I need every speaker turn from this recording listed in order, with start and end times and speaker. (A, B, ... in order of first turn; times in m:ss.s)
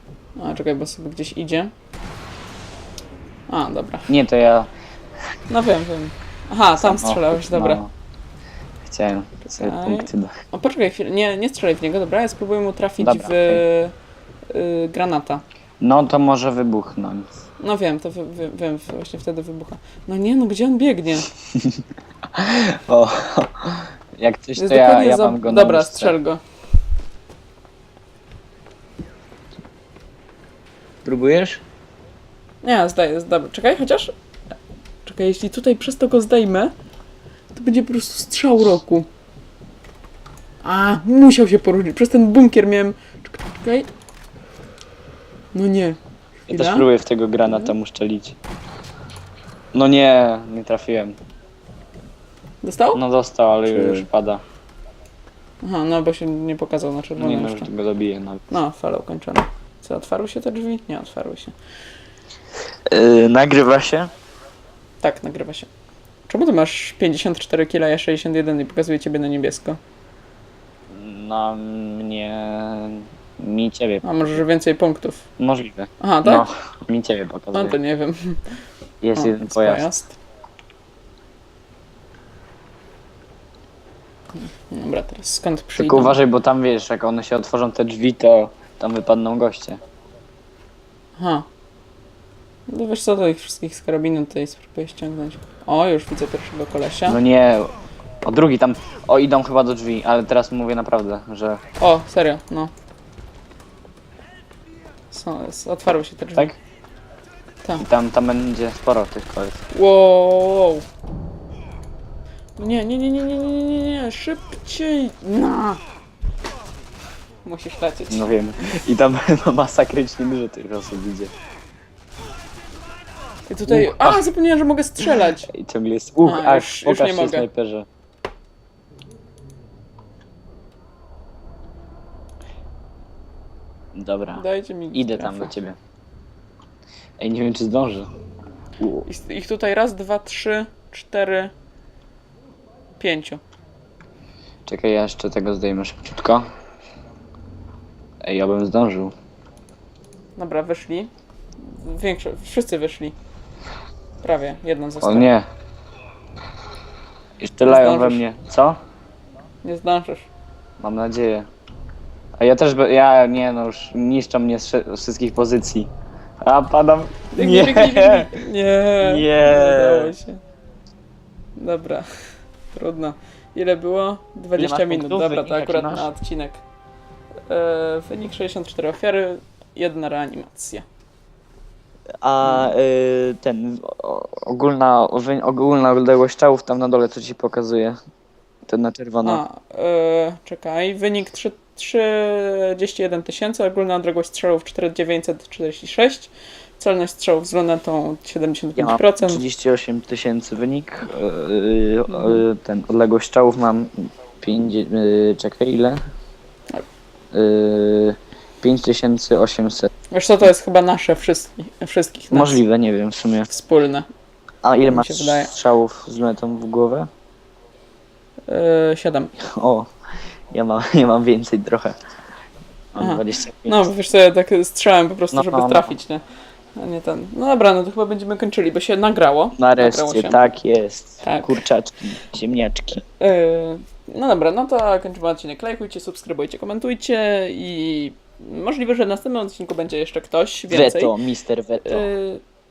0:00.4-0:01.7 A
0:03.5-0:04.1 A
0:04.1-0:04.7 B
0:05.5-0:07.8 A
0:06.8-0:07.9 B
0:08.8-0:10.3 B
0:09.4-0:13.9 A
0:13.0-0:13.6 B
0:14.5-0:15.4 A
0:15.8-0:17.3 B
0:17.6-0:21.3 A
0:21.5-0:26.2 B
0:24.6-0:26.4 A
0:31.0-0:31.6 B
0:32.6-0:34.1 A
0:35.0-0:36.7 A
0:37.5-0:39.1 A
0:40.6-0:43.9 A
0:45.5-0:46.0 A
0:46.5-0:46.9 A
0:46.5-0:48.4 B
0:49.7-0:51.2 B
0:52.6-0:53.0 A
0:53.0-0:54.4 B
0:53.7-0:54.1 A
0:55.6-0:57.7 A
0:57.2-0:58.5 B
0:58.5-1:01.5 A
1:02.9-1:04.1 B
1:05.0-1:05.7 A
1:06.3-1:09.8 A
1:10.9-1:14.0 B
1:14.0-1:15.2 A
1:15.4-1:17.8 B
1:16.0-1:16.5 A
1:17.5-1:18.4 A
1:19.0-1:19.9 B
1:19.2-1:20.2 A
1:24.5-1:26.2 A
1:25.8-1:29.8 B
1:31.2-1:31.5 A
1:32.7-1:37.2 A
1:37.1-1:41.6 B
1:41.8-1:42.7 A
1:45.1-1:46.5 A
1:47.8-1:49.6 B
1:49.7-1:50.9 A
1:52.6-1:55.8 A
1:57.4-1:58.4 A
1:58.1-2:01.3 B
2:03.5-2:05.5 A
2:03.7-2:04.3 B
2:05.0-2:07.9 B
2:06.2-2:07.5 A
2:13.9-2:15.8 B
2:14.3-2:15.5 A
2:17.2-2:18.1 B
2:18.8-2:19.0 B
2:19.0-2:21.5 A
2:23.0-2:23.4 A
2:24.7-2:26.5 B
2:28.2-2:29.1 B
2:30.4-2:33.2 A
2:34.2-2:35.3 A
2:35.0-2:35.5 B
2:37.4-2:38.8 B
2:37.6-2:38.2 A
2:39.6-2:40.3 A
2:40.8-2:41.5 B
2:42.4-2:48.4 B
2:47.3-2:50.4 A
2:49.0-2:50.2 B
2:51.6-2:52.1 A
2:52.7-2:56.6 A
2:54.6-2:56.1 B
2:57.5-3:00.9 A
3:02.2-3:08.0 B
3:02.4-3:02.7 A
3:08.7-3:09.4 B
3:09.2-3:19.4 A
3:18.8-3:26.0 B
3:22.1-3:22.4 A
3:27.3-3:29.9 B
3:30.1-3:32.6 A
3:32.3-3:33.5 B
3:33.5-3:34.1 A
3:34.6-3:37.1 B
3:34.9-3:35.5 A
3:38.5-3:39.3 A
3:39.4-3:39.9 B
3:40.5-3:42.0 B
3:42.9-3:43.9 B
3:43.0-3:46.2 A
3:45.3-3:45.9 B
3:46.8-3:50.5 A
3:49.6-3:53.0 B
3:51.2-3:51.6 A
3:53.1-4:01.2 A
4:00.7-4:02.1 B
4:01.8-4:02.4 A